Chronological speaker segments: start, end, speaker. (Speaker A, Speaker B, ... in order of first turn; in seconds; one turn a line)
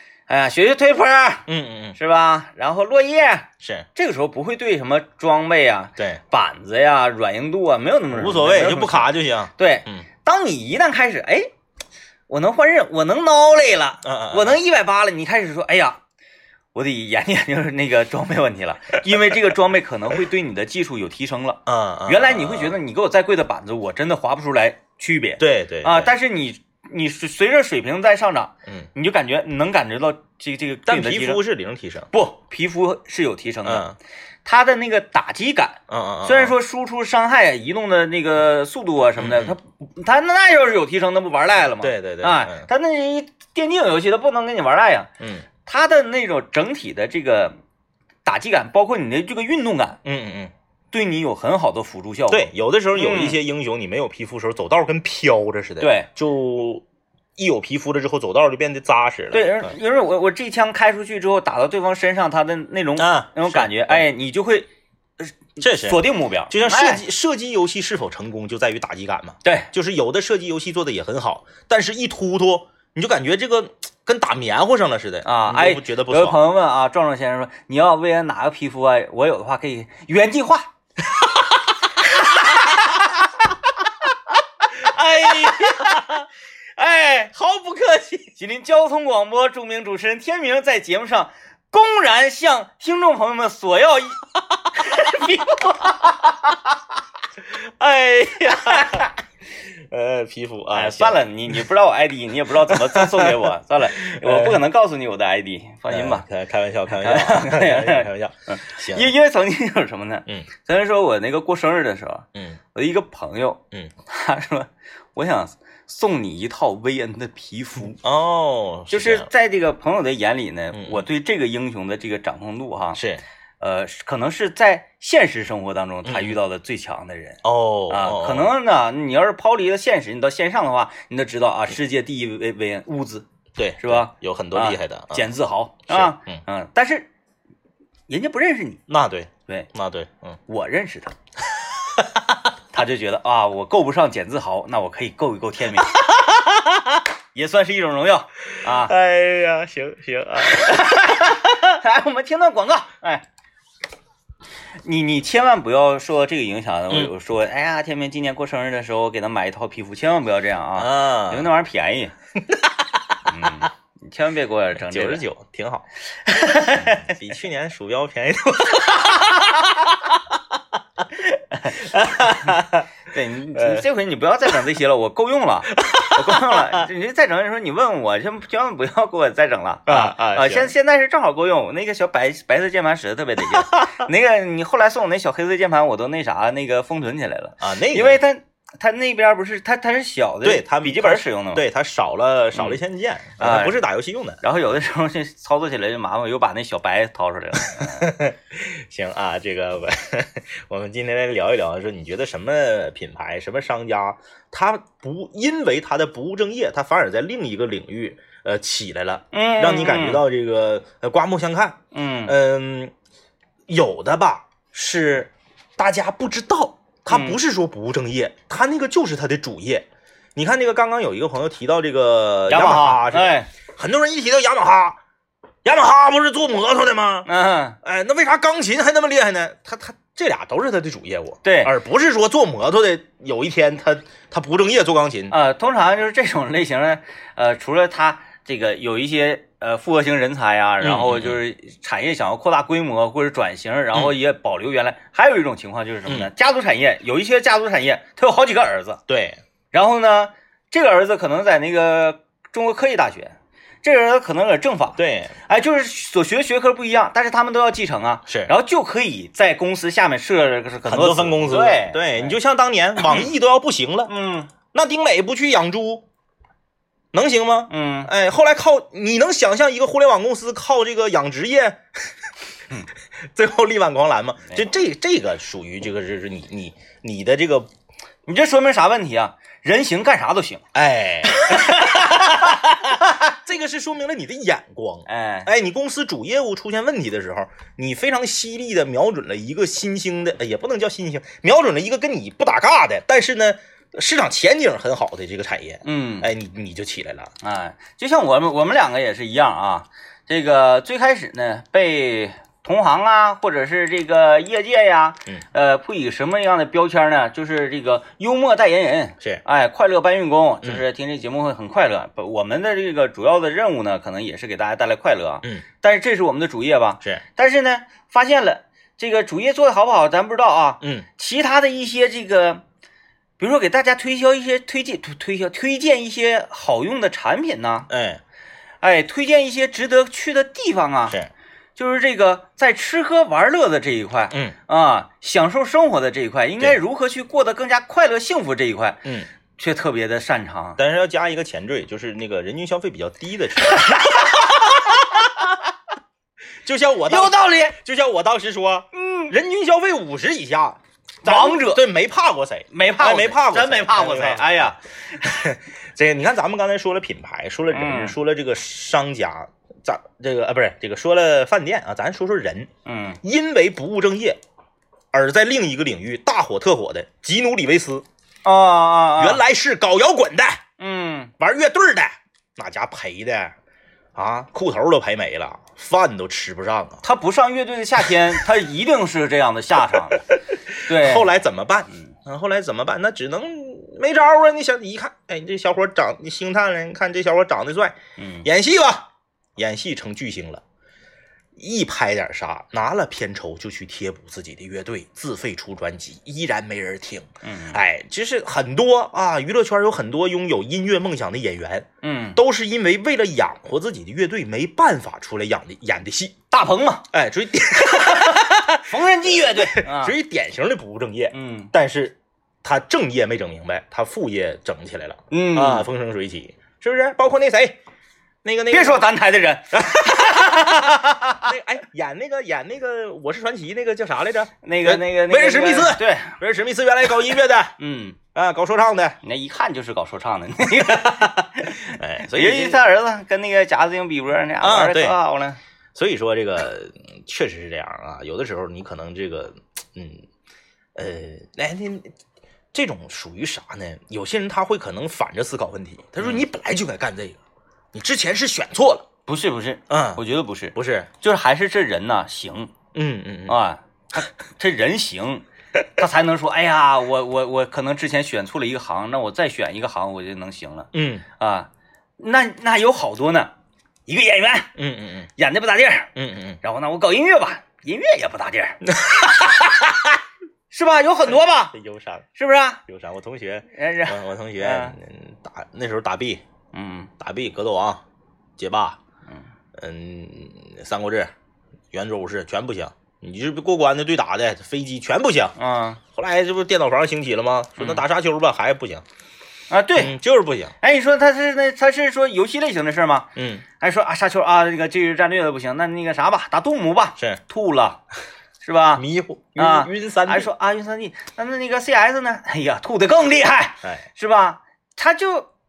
Speaker A: 0.3-11.5
Speaker B: 1.5-2.0
Speaker B: 3.6-3.9
Speaker B: 8.1-10.0
Speaker A: 12.3-16.0
Speaker B: 14.0-14.6
Speaker A: 16.7-31.4
Speaker B: 21.6-22.8
Speaker B: 25.4-26.1
Speaker B: 30.9-32.1
Speaker A: 32.1-33.9
Speaker B: 33.6-34.0
Speaker A: 34.4-45.1
Speaker B: 35.9-36.5
Speaker B: 39.2-39.5
Speaker B: 41.8-42.7
Speaker B: 45.2-45.5
Speaker A: 45.6-47.6
Speaker A: 48.2-50.0
Speaker B: 50.0-50.5
Speaker A: 50.9-53.4
Speaker B: 52.3-56.8
Speaker A: 55.8-56.1
Speaker B: 57.4-59.7
Speaker A: 59.3-64.7
Speaker B: 63.0-64.0
Speaker A: 65.2-67.0
Speaker B: 65.6-76.4
Speaker A: 69.4-69.7
Speaker A: 75.2-80.7
Speaker B: 82.2-83.0
Speaker A: 82.4-83.0
Speaker A: 84.7-86.2
Speaker B: 84.7-86.2
Speaker A: 86.8-87.3
Speaker B: 87.3-88.3
Speaker A: 88.3-94.2
Speaker A: 94.7-96.5
Speaker B: 97.4-99.1
Speaker A: 98.7-99.1
Speaker B: 99.7-101.2
Speaker A: 100.7-106.2
Speaker B: 102.7-103.4
Speaker B: 103.9-104.6
Speaker B: 105.9-109.1
Speaker A: 106.9-118.0
Speaker B: 118.0-119.3
Speaker A: 118.9-123.0
Speaker B: 120.7-121.0
Speaker B: 123.0-123.2
Speaker A: 123.6-133.3
Speaker B: 126.0-126.4
Speaker B: 127.4-128.5
Speaker B: 133.6-135.3
Speaker A: 133.8-137.1
Speaker B: 135.9-136.4
Speaker A: 138.1-138.8
Speaker B: 138.9-140.4
Speaker A: 140.5-141.1
Speaker B: 141.8-142.4
Speaker A: 142.7-146.0
Speaker B: 146.0-147.0
Speaker A: 147.3-148.9
Speaker B: 148.6-151.5
Speaker A: 150.5-153.2
Speaker A: 154.8-162.1
Speaker B: 160.8-161.5
Speaker B: 162.5-162.9
Speaker A: 163.2-165.2
Speaker B: 164.8-165.8
Speaker A: 166.2-167.1
Speaker B: 166.7-170.2
Speaker A: 171.4-191.6
Speaker B: 171.7-172.9
Speaker B: 173.5-173.8
Speaker B: 175.7-176.8
Speaker B: 179.9-180.7
Speaker B: 183.5-183.8
Speaker B: 187.6-188.2
Speaker B: 190.4-194.4
Speaker A: 193.4-193.8
Speaker A: 194.4-198.1
Speaker B: 197.7-212.9
Speaker A: 209.3-210.2
Speaker A: 211.9-212.3
Speaker B: 213.7-225.0
Speaker A: 217.1-217.4
Speaker A: 222.5-223.5
Speaker B: 225.6-227.3
Speaker A: 227.2-227.8
Speaker B: 227.8-235.3
Speaker A: 231.4-231.7
Speaker A: 235.3-249.0
Speaker B: 240.8-241.4
Speaker B: 249.1-249.4
Speaker A: 249.7-262.3
Speaker B: 255.0-255.3
Speaker B: 258.3-258.5
Speaker B: 260.9-264.1
Speaker A: 263.0-263.3
Speaker A: 264.1-264.5
Speaker B: 264.7-266.0
Speaker B: 267.1-272.1
Speaker A: 267.7-268.1
Speaker B: 273.3-277.7
Speaker A: 278.3-280.6
Speaker B: 280.7-297.3
Speaker A: 281.3-283.2
Speaker A: 285.1-285.5
Speaker A: 295.8-296.3
Speaker A: 297.4-322.6
Speaker B: 320.8-321.1
Speaker A: 323.4-327.9
Speaker B: 327.9-328.2
Speaker A: 328.8-331.2
Speaker A: 331.8-339.1
Speaker A: 339.6-340.8
Speaker B: 340.8-345.4
Speaker A: 343.7-345.2
Speaker B: 346.6-362.7
Speaker A: 347.1-347.8
Speaker A: 348.9-349.3
Speaker A: 351.2-351.8
Speaker A: 352.7-354.8
Speaker A: 357.7-358.1
Speaker A: 362.8-363.2
Speaker B: 363.2-364.4
Speaker B: 365.1-368.0
Speaker A: 368.4-369.4
Speaker B: 369.2-370.6
Speaker A: 370.8-371.3
Speaker B: 371.4-373.5
Speaker B: 374.1-377.0
Speaker A: 377.0-380.2
Speaker B: 379.9-390.6
Speaker A: 380.8-381.3
Speaker A: 388.2-388.5
Speaker B: 391.6-406.3
Speaker A: 397.4-397.8
Speaker A: 402.0-402.4
Speaker A: 406.5-407.1
Speaker B: 407.1-417.8
Speaker A: 407.8-410.1
Speaker A: 411.3-411.7
Speaker A: 415.3-415.9
Speaker B: 418.4-419.0
Speaker A: 418.7-421.5
Speaker B: 419.7-427.8
Speaker A: 424.6-426.4
Speaker A: 427.8-428.2
Speaker B: 428.3-429.2
Speaker A: 429.2-435.6
Speaker B: 430.7-432.8
Speaker B: 434.6-435.1
Speaker B: 435.9-440.2
Speaker B: 440.9-442.1
Speaker B: 442.7-447.4
Speaker B: 447.9-449.1
Speaker A: 449.3-452.7
Speaker B: 449.9-450.2
Speaker B: 450.7-451.1
Speaker B: 452.9-453.6
Speaker A: 453.5-463.5
Speaker B: 460.9-461.2
Speaker A: 464.1-464.7
Speaker B: 464.8-465.3
Speaker A: 465.4-466.1
Speaker B: 466.1-466.6
Speaker A: 466.6-468.9
Speaker B: 468.8-470.2
Speaker A: 470.7-471.8
Speaker B: 471.7-472.3
Speaker A: 472.3-472.8
Speaker B: 472.9-476.4
Speaker A: 473.7-474.9
Speaker A: 476.7-477.1
Speaker B: 477.2-478.0
Speaker B: 478.6-479.0
Speaker B: 479.8-481.3
Speaker B: 481.9-485.5
Speaker A: 485.6-486.0
Speaker B: 486.1-489.0
Speaker A: 487.8-488.0
Speaker A: 489.7-490.1
Speaker B: 489.9-490.7
Speaker A: 490.8-498.0
Speaker B: 493.4-493.6
Speaker A: 498.6-499.0
Speaker B: 498.9-500.5
Speaker A: 499.6-505.5